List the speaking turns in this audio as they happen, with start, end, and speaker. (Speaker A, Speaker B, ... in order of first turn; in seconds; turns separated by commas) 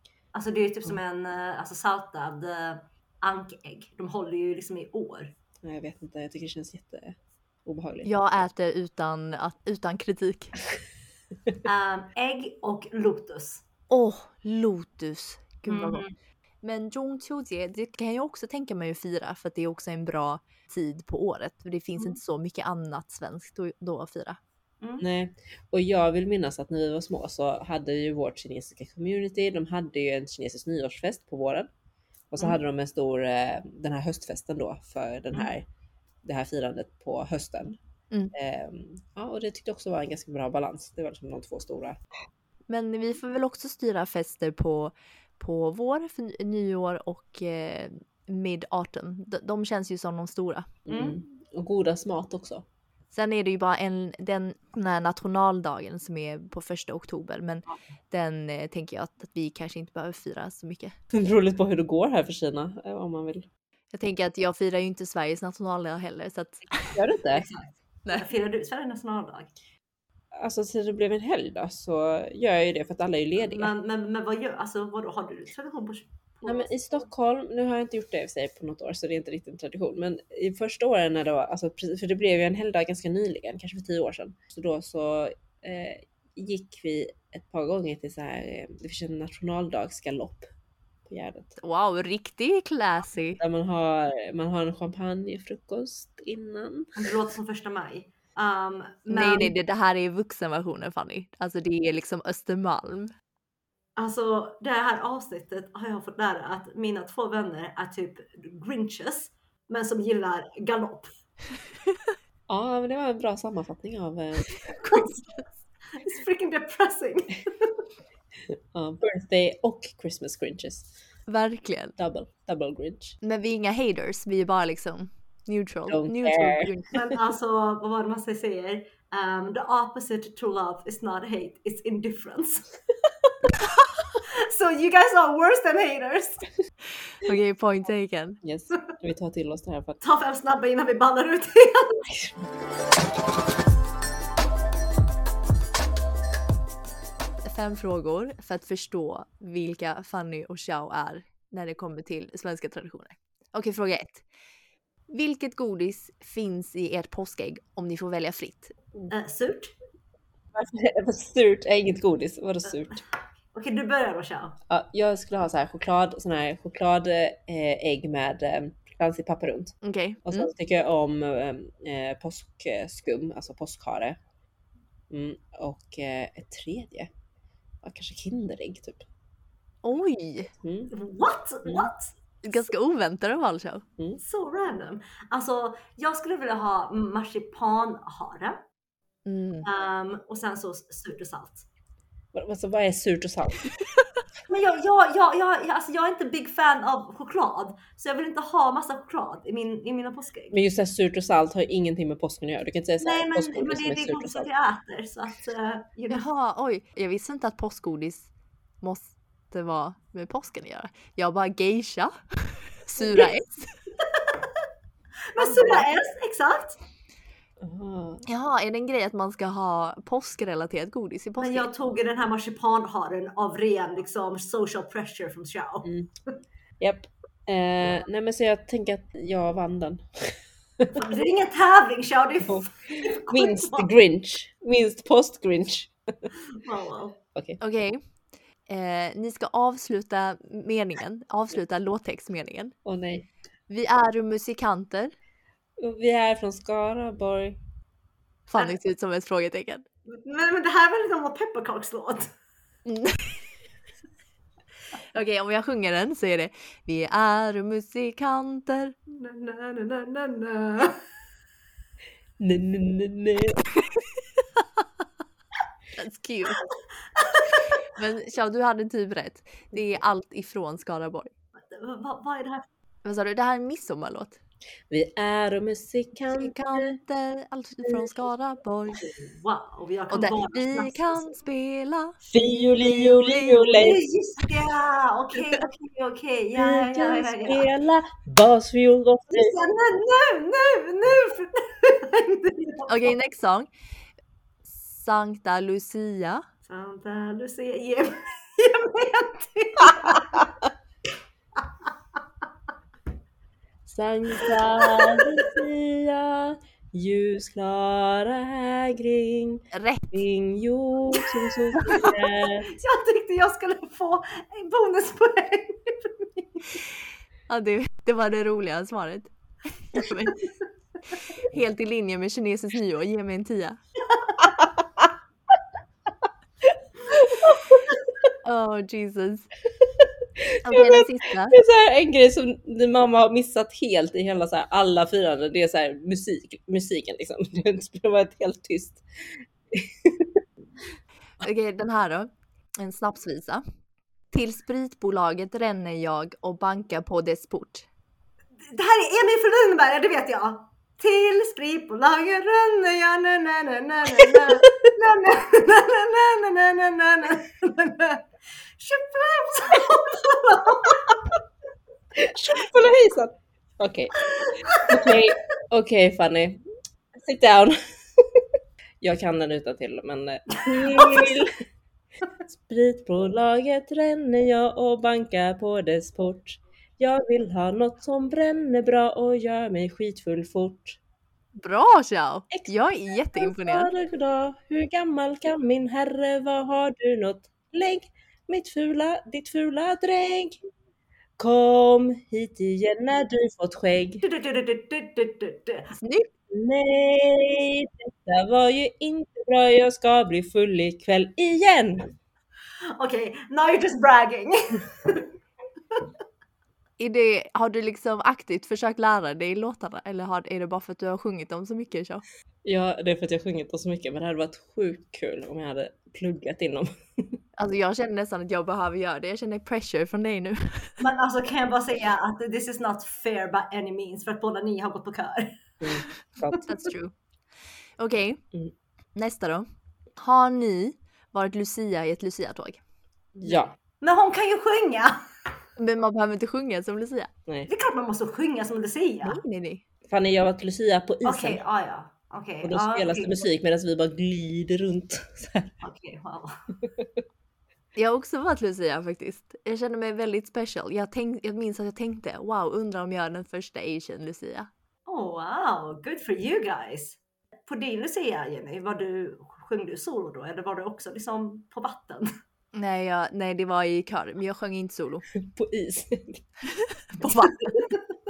Speaker A: 0.3-5.3, Speaker B: 5.6-8.2, Speaker C: 8.0-10.5, Speaker A: 11.6-13.6, Speaker C: 13.9-16.0, Speaker A: 15.7-16.1, Speaker C: 16.6-24.4, Speaker B: 25.0-31.7, Speaker B: 32.3-35.6, Speaker B: 36.2-37.8, Speaker B: 38.3-42.0, Speaker C: 42.7-50.7, Speaker B: 50.9-52.6, Speaker A: 50.9-51.2, Speaker C: 53.1-61.0, Speaker B: 61.1-63.5, Speaker C: 63.9-66.9, Speaker B: 66.9-67.5, Speaker A: 67.3-69.5, Speaker B: 70.3-73.7, Speaker A: 73.4-76.7, Speaker B: 76.4-90.5, Speaker B: 91.1-91.6, Speaker C: 91.6-93.4, Speaker B: 93.4-97.1, Speaker A: 97.0-99.5, Speaker C: 99.1-103.1, Speaker A: 104.0-111.1, Speaker B: 112.5-115.0, Speaker A: 114.8-115.4, Speaker A: 115.9-117.8, Speaker B: 118.7-120.9, Speaker C: 121.3-122.0, Speaker B: 122.0-123.2, Speaker C: 123.2-126.9, Speaker B: 125.9-127.0, Speaker A: 126.9-132.7, Speaker A: 134.2-136.4, Speaker C: 137.2-138.4, Speaker B: 138.4-140.0, Speaker A: 140.0-142.1, Speaker C: 147.4-154.2, Speaker C: 155.1-158.7, Speaker A: 159.1-159.7, Speaker B: 160.5-163.0, Speaker A: 163.5-164.6, Speaker B: 164.7-169.7, Speaker C: 169.8-170.5, Speaker B: 170.2-174.2, Speaker B: 175.1-177.1, Speaker B: 177.8-179.1, Speaker C: 179.8-180.5, Speaker B: 180.6-180.9, Speaker A: 180.9-182.1, Speaker C: 182.4-183.8, Speaker A: 184.2-188.6, Speaker C: 189.2-189.7, Speaker A: 189.6-191.7, Speaker B: 192.3-193.7, Speaker A: 194.5-200.6, Speaker B: 200.5-204.5, Speaker A: 203.0-206.2, Speaker C: 206.1-208.3, Speaker C: 208.8-213.7, Speaker A: 213.0-213.3, Speaker A: 215.3-216.8, Speaker B: 215.4-215.8, Speaker B: 217.6-218.2, Speaker C: 218.2-221.7, Speaker A: 221.4-225.9, Speaker B: 225.8-226.1, Speaker B: 226.8-231.0, Speaker A: 230.9-233.9, Speaker B: 232.5-236.3, Speaker A: 236.6-237.2, Speaker C: 237.6-238.0, Speaker C: 238.7-242.7, Speaker B: 242.8-243.3, Speaker C: 243.7-245.1, Speaker B: 245.8-247.6, Speaker C: 248.5-249.8, Speaker A: 250.1-252.3, Speaker C: 252.8-253.5, Speaker C: 255.1-258.9, Speaker A: 259.1-261.0, Speaker B: 262.4-263.6, Speaker C: 265.9-266.7, Speaker A: 267.1-267.6, Speaker C: 267.9-271.3, Speaker A: 271.6-272.6, Speaker C: 273.0-274.4, Speaker B: 274.9-277.0, Speaker C: 276.3-279.1, Speaker A: 279.2-281.3, Speaker C: 280.1-283.8, Speaker B: 282.3-284.0, Speaker A: 283.7-287.7, Speaker B: 286.6-289.6, Speaker A: 289.3-292.9, Speaker C: 292.9-293.7, Speaker C: 294.6-296.4, Speaker A: 296.6-300.4, Speaker B: 303.9-312.7, Speaker A: 304.8-305.4, Speaker C: 309.7-310.2, Speaker A: 311.8-316.8, Speaker C: 317.5-320.5, Speaker C: 321.4-323.8, Speaker A: 324.1-324.4, Speaker B: 327.1-327.8, Speaker C: 328.4-329.5, Speaker B: 330.4-340.4, Speaker C: 330.6-331.6, Speaker C: 341.4-343.6, Speaker C: 344.3-347.9, Speaker A: 348.7-358.2, Speaker A: 358.8-361.1, Speaker B: 362.1-366.6, Speaker A: 364.3-365.2, Speaker B: 367.2-368.4, Speaker B: 369.0-371.5, Speaker A: 370.6-371.3, Speaker B: 372.5-381.0, Speaker C: 381.6-383.9, Speaker B: 383.3-390.6, Speaker B: 391.4-394.2, Speaker A: 394.2-395.9, Speaker C: 395.9-396.3, Speaker B: 396.5-402.1, Speaker A: 403.0-405.3, Speaker C: 407.0-412.2, Speaker B: 412.6-417.4, Speaker C: 417.6-421.0, Speaker A: 421.0-426.6, Speaker B: 425.8-426.6, Speaker C: 426.6-427.1, Speaker C: 428.0-428.4, Speaker C: 429.1-432.8, Speaker B: 433.4-433.7, Speaker A: 433.4-435.2, Speaker C: 435.8-437.3, Speaker A: 437.7-439.4, Speaker C: 439.2-439.8, Speaker B: 440.1-441.6, Speaker A: 441.2-443.5, Speaker B: 442.6-445.7, Speaker A: 445.8-446.5, Speaker B: 446.8-447.1, Speaker C: 447.9-454.7, Speaker A: 455.1-462.3, Speaker C: 462.7-465.2, Speaker B: 465.3-466.4, Speaker C: 467.1-467.7